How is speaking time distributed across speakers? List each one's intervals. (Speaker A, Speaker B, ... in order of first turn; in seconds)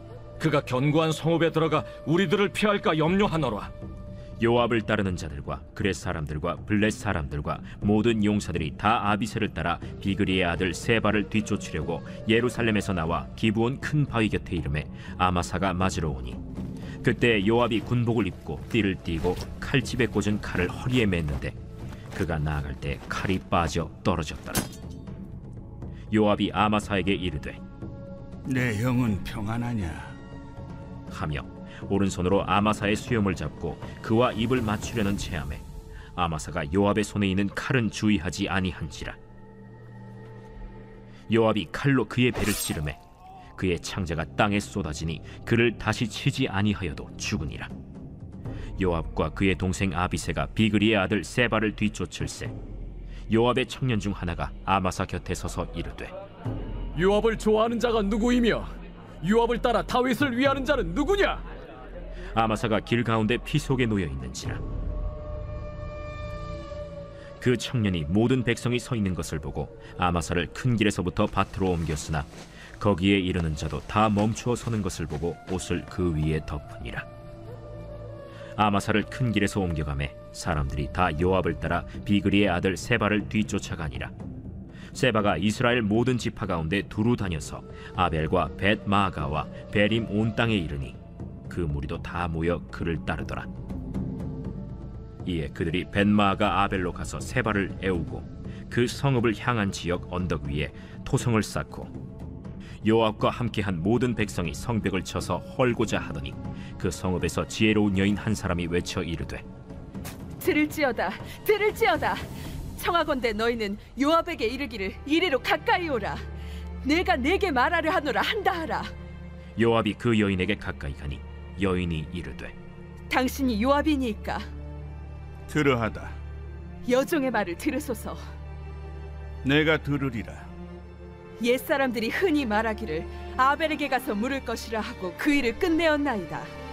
Speaker A: 0.4-3.7
Speaker B: 4.4-16.4, 17.0-21.6, 22.1-24.6, 26.1-27.6, 31.1-35.6, 36.1-39.2, 41.3-43.0, 43.5-47.7, 48.8-52.5, 53.3-56.1, 62.3-64.6, 67.4-77.0, 78.5-84.1, 84.9-93.5, 95.2-101.9, 102.8-109.4, 119.6-122.5
Speaker C: 28.4-30.1, 125.5-126.1, 129.4-130.5
Speaker D: 56.9-61.4
Speaker E: 110.4-112.2, 112.7-116.2, 116.8-118.9, 123.1-124.5, 126.9-128.2, 131.4-136.5